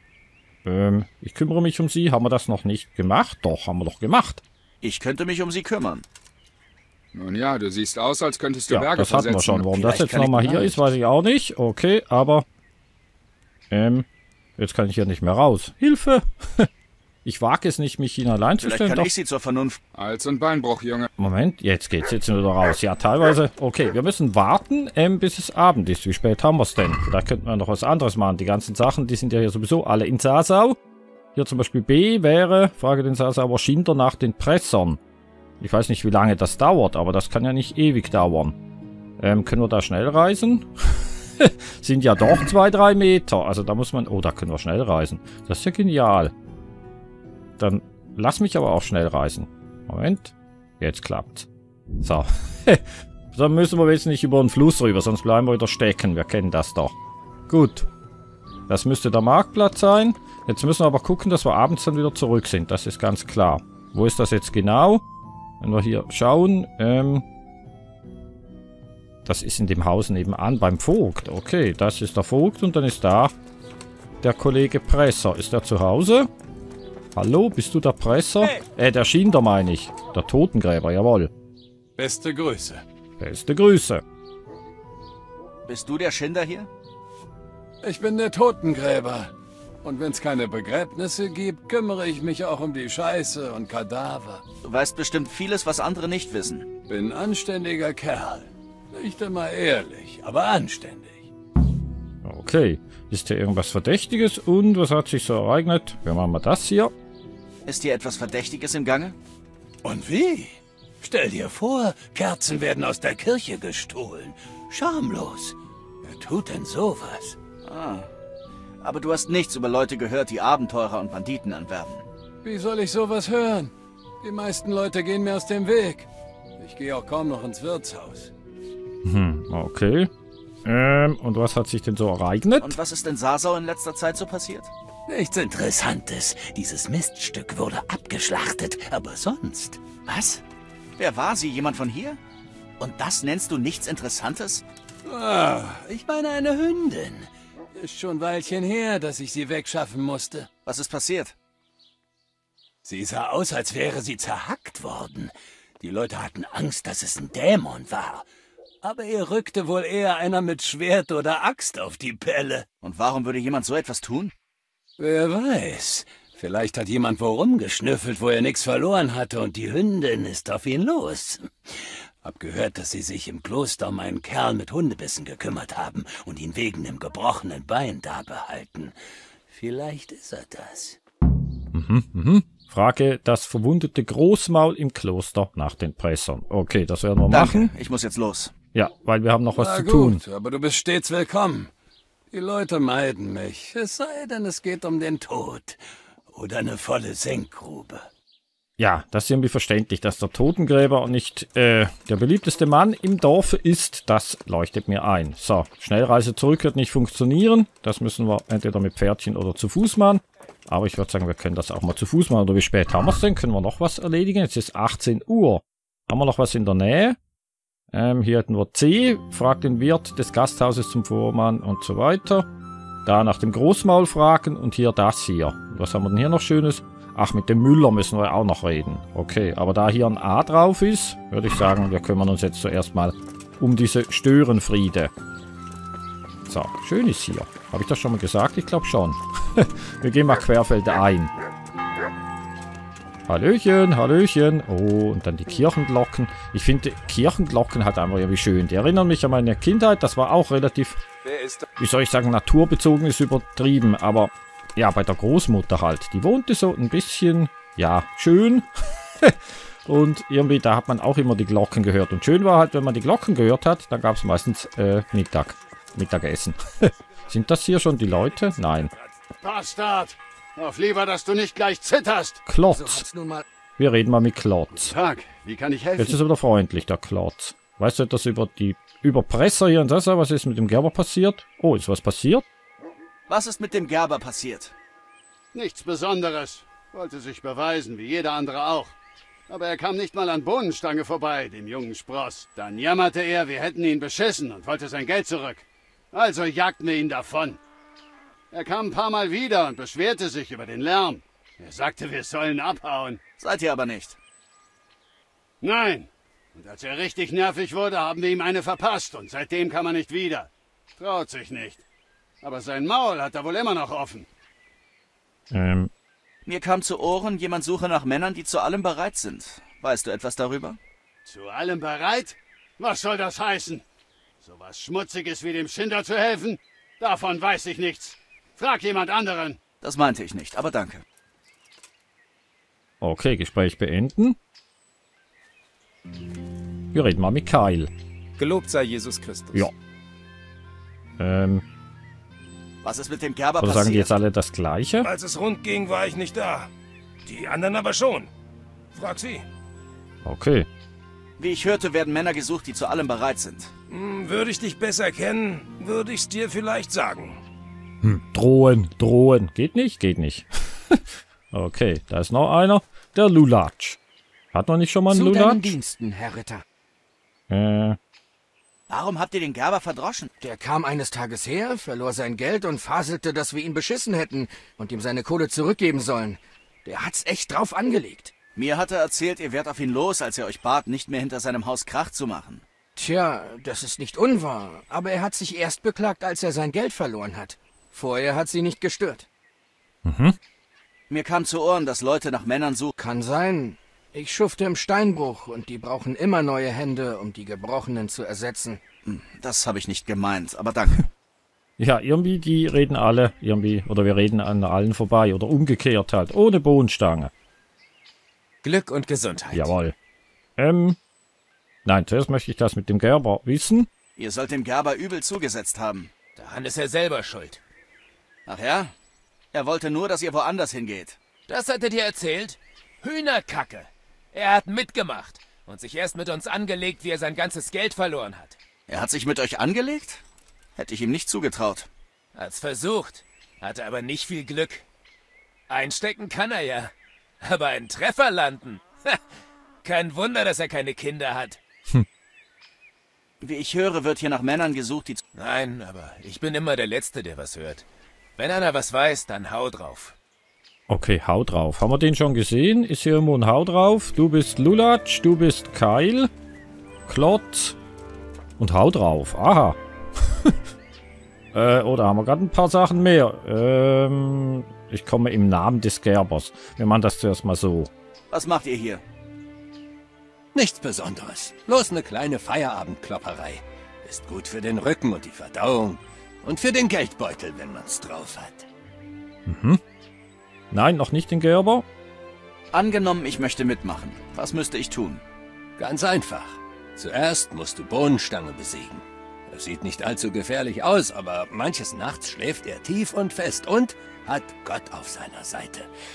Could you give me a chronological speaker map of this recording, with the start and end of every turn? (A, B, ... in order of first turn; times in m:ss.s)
0:00.6-0:04.4 A
0:04.8-0:06.0 B
0:07.1-0:09.9 C
0:08.7-0:12.5 A
0:09.8-0:10.7 B
0:13.7-0:14.1 A
0:14.6-0:16.7 A
0:17.2-0:19.1 A
0:18.6-0:19.8 B
0:20.0-0:21.1 C
0:21.2-0:30.8 A
0:31.4-0:35.0 A
0:35.6-0:38.6 A
0:39.2-0:46.3 A
0:47.6-0:51.5 A
0:52.0-0:56.9 A
0:57.5-0:57.8 A
0:58.7-1:05.0 A
1:05.6-1:07.2 A
1:09.2-1:13.3 A
1:14.2-1:16.3 A
1:17.2-1:21.3 A
1:22.0-1:22.8 D
1:23.2-1:24.0 A
1:25.6-1:26.7 B
1:27.8-1:29.3 D
1:29.8-1:34.4 D
1:34.6-1:36.7 B
1:36.9-1:41.3 D
1:42.2-1:46.9 A
1:47.7-1:49.2 B
1:49.8-1:57.4 D
1:57.7-1:58.1 B
1:58.8-2:02.0 B
2:02.4-2:08.3 D
2:09.0-2:10.1 A
2:10.6-2:12.8 A
2:12.6-2:14.7 B
2:15.1-2:20.4 D
2:21.0-2:22.2 B
2:22.8-2:24.6 B
2:25.0-2:30.5 D
2:30.7-2:31.3 B
2:32.8-2:38.3 D
2:38.8-2:42.7 D
2:42.8-2:44.3 B
2:45.0-2:51.5 D
2:52.2-2:59.0 D
2:59.5-3:01.0 D
3:01.7-3:07.7 A
3:07.3-3:08.5 B
3:08.7-3:10.2 A
3:09.5-3:11.7 D
3:12.3-3:18.1 D
3:18.8-3:37.2 A
3:37.9-3:42.5 A
3:43.0-3:55.1 A
3:56.5-4:01.3 A
4:03.3-4:11.0 A
4:11.2-4:11.6 E
4:11.8-4:18.7 A
4:19.2-4:28.9 A
4:29.4-4:32.4 F
4:32.5-4:33.0 A
4:32.7-4:33.4 G
4:33.8-4:34.9 A
4:34.7-4:36.2 F
4:36.0-4:42.4 A
4:43.3-4:44.7 B
4:45.5-4:48.9 F
4:49.5-4:57.6 F
4:58.5-5:03.2 F
5:03.4-5:04.2 B
5:05.6-5:11.8 F
5:12.4-5:14.3 F
5:15.5-5:15.9 A
5:16.5-5:20.8 B
5:21.3-5:23.8 F
5:24.4-5:29.6 F
5:29.8-5:31.0 B
5:33.0-5:34.4 A
5:36.9-5:37.9 A
5:39.2-5:39.5 D
5:41.2-5:41.6 A
5:42.8-5:44.2 B
5:43.6-5:45.1 A
5:45.0-5:46.7 E
5:47.2-5:48.3 E
5:48.9-5:49.5 E
5:50.2-5:50.7 A
5:51.4-5:53.7 B
5:53.9-5:57.4 E
5:58.0-6:04.0 A
6:04.5-6:05.7 A
6:05.1-6:06.6 G
6:07.5-6:08.0 A
6:08.9-6:10.3 B
6:10.4-6:18.3 G
6:18.6-6:22.6 B
6:23.0-6:29.3 G
6:30.0-6:30.4 A
6:31.1-6:32.9 B
6:33.0-6:38.8 G
6:39.0-6:41.1 B
6:41.8-6:47.3 A
6:48.6-6:49.7 H
6:49.5-6:50.0 A
6:50.6-6:51.0 A
6:51.8-6:53.9 A
6:54.2-6:56.1 B
6:56.4-6:57.6 H
6:58.5-6:58.9 B
6:59.5-7:01.2 B
7:01.5-7:08.6 H
7:08.9-7:10.2 B
7:10.8-7:11.9 B
7:12.4-7:14.8 H
7:15.7-7:19.2 H
7:19.8-7:21.6 H
7:23.4-7:25.2 B
7:25.4-7:27.9 H
7:28.4-7:30.2 H
7:30.9-7:36.3 A
7:37.1-7:37.8 A
7:38.6-7:39.8 A
7:41.5-7:47.9 A
7:48.3-7:49.0 B
7:50.5-7:58.7 D
7:59.5-7:59.8 A
8:00.7-8:01.8 A
8:02.7-8:05.2 B
8:05.8-8:15.9 D